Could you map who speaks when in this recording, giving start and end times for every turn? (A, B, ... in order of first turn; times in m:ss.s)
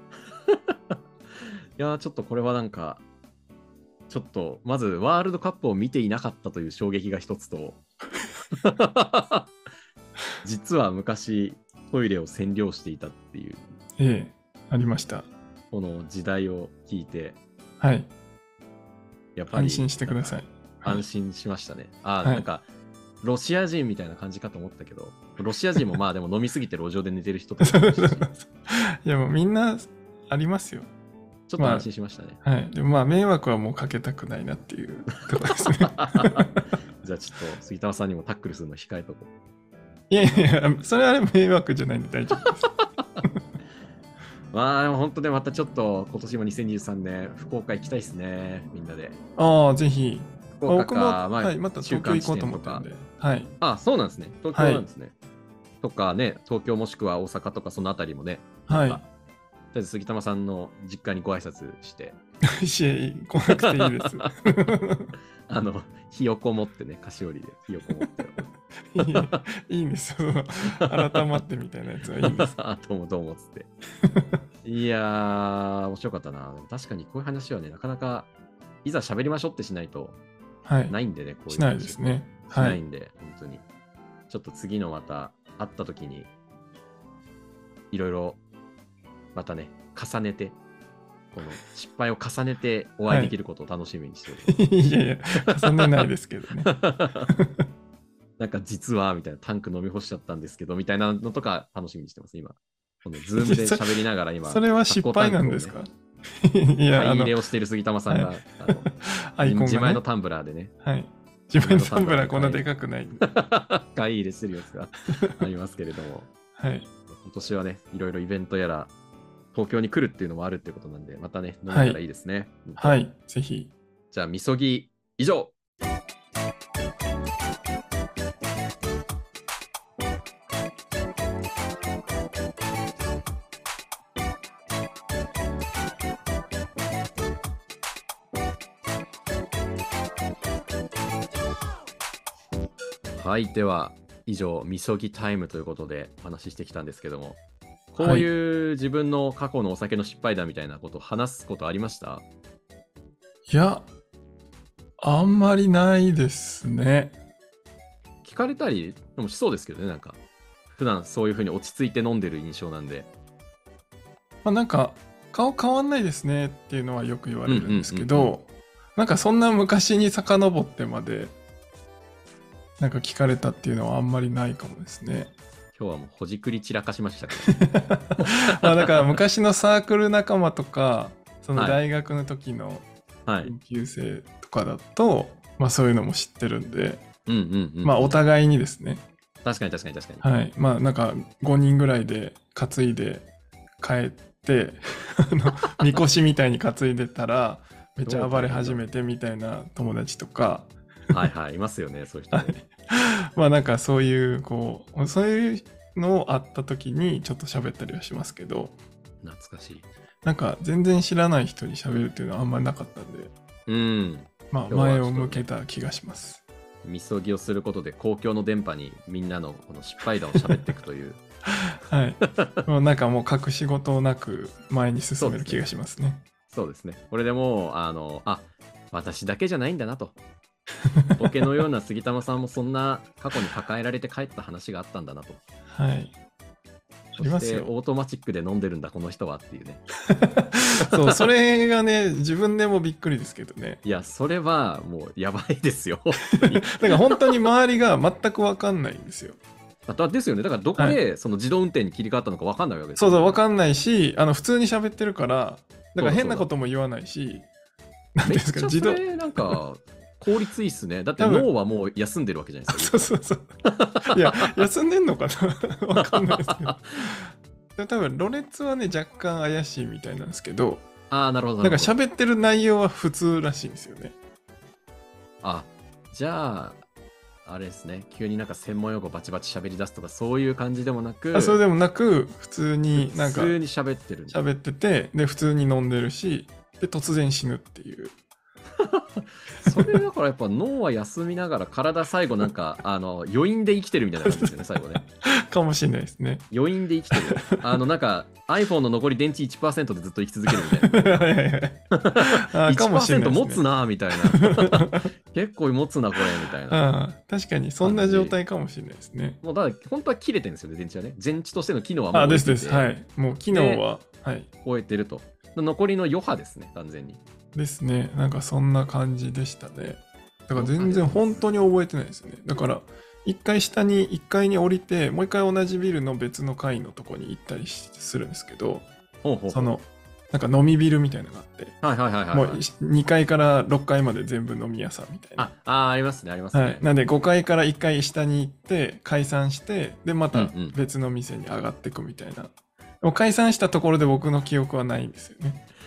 0:00.4-0:01.0 A
0:01.8-0:03.0 A
0:04.1-0:07.8 A
0:08.5-0:09.5 A
0:10.4-0:13.7 A
0:14.0-0:15.2 B
0:15.7-0:17.4 A
0:17.8-0:18.1 B
0:19.4-0:22.6 A
0:19.5-0:21.0 B
0:23.2-0:28.3 A
0:27.6-0:30.9 B
0:31.5-0:32.4 A
0:31.6-0:31.9 B
0:32.4-0:36.6 B
0:35.2-0:36.5 A
0:37.0-0:39.3 A
0:40.1-0:42.7 B
0:44.5-0:49.2 A
0:49.4-0:53.5 B
0:50.6-0:52.8 A
0:53.6-0:55.1 A
0:54.5-0:54.8 B
0:55.8-0:59.0 A
0:58.7-0:59.0 B
0:59.7-1:02.2 A
1:02.4-1:05.1 B
1:03.4-1:04.4 A
1:05.5-1:08.5 A
1:08.9-1:12.5 B
1:09.1-1:09.4 A
1:10.7-1:11.4 A
1:12.2-1:13.7 A
1:14.0-1:14.4 B
1:14.6-1:18.3 A
1:18.8-1:20.2 A
1:20.6-1:21.0 B
1:20.9-1:23.6 A
1:21.5-1:22.8 B
1:24.3-1:26.3 A
1:27.9-1:28.4 A
1:29.3-1:30.6 A
1:31.3-1:34.7 A
1:33.1-1:33.3 B
1:34.4-1:36.7 B
1:35.5-1:36.1 A
1:36.6-1:37.3 A
1:37.3-1:37.6 B
1:38.4-1:45.7 A
1:43.4-1:47.3 B
1:46.9-1:48.9 A
1:48.1-1:50.0 B
1:49.4-1:50.7 A
1:50.8-1:53.3 B
1:51.6-1:52.6 A
1:53.2-1:56.3 A
1:56.6-1:56.9 B
1:57.1-1:58.9 A
1:59.5-2:03.0 A
2:01.7-2:02.0 B
2:02.8-2:03.7 B
2:04.1-2:05.5 A
2:23.2-2:27.4 A
2:27.9-2:32.2 A
2:28.0-2:28.3 B
2:33.5-2:33.8 B
2:35.0-2:37.1 B
2:38.2-2:40.2 A
2:40.7-2:43.1 A
2:44.4-2:51.3 B
2:47.4-2:48.3 A
2:52.8-2:55.3 B
2:55.7-2:57.5 A
2:57.4-3:02.9 B
2:58.2-2:59.2 A
3:03.2-3:03.5 A
3:03.4-3:07.0 B
3:07.2-3:08.2 A
3:07.8-3:09.0 B
3:09.4-3:10.2 A
3:10.2-3:13.3 B
3:13.8-3:20.7 B
3:18.0-3:18.8 A
3:21.1-3:22.6 A
3:22.3-3:28.8 B
3:29.2-3:29.9 A
3:30.2-3:33.3 B
3:33.7-3:35.5 A
3:34.5-3:36.4 B
3:36.8-3:41.2 A
3:41.7-3:46.2 B
3:42.2-3:42.6 A
3:45.2-3:45.7 A
3:46.5-3:50.2 A
3:50.8-3:51.2 B
3:51.2-3:55.4 A
3:55.7-3:56.1 B
3:57.2-3:57.7 B
3:57.2-3:59.8 A
4:00.1-4:03.8 B
4:00.7-4:01.2 A
4:03.8-4:07.2 A
4:06.4-4:09.4 B
4:09.9-4:13.4 A
4:13.0-4:17.5 B
4:16.0-4:16.5 A
4:18.1-4:19.6 B
4:18.2-4:23.1 A
4:21.2-4:21.5 B
4:22.7-4:23.5 B
4:23.6-4:24.5 A
4:24.0-4:30.9 B
4:25.9-4:27.1 A
4:31.1-4:31.9 A
4:31.6-4:34.1 B
4:35.4-4:36.8 A
4:37.4-4:41.6 A
4:41.3-4:43.6 B
4:42.9-4:44.4 A
4:44.3-4:48.1 B
4:48.8-4:55.0 A
4:54.2-4:56.4 B
4:56.5-5:01.3 A
4:57.1-4:57.5 B
5:00.6-5:05.1 B
5:01.9-5:06.8 A
5:06.7-5:09.4 B
5:07.8-5:08.4 A
5:09.4-5:12.9 A
5:12.1-5:14.5 B
5:13.5-5:13.8 A
5:14.6-5:17.2 A
5:17.5-5:28.9 B
5:20.5-5:21.5 A
5:29.2-5:29.7 A
5:29.5-5:31.8 B
5:31.8-5:32.6 A
5:32.3-5:35.5 B
5:35.4-5:36.8 A
5:36.5-5:45.6 B
5:40.3-5:40.8 A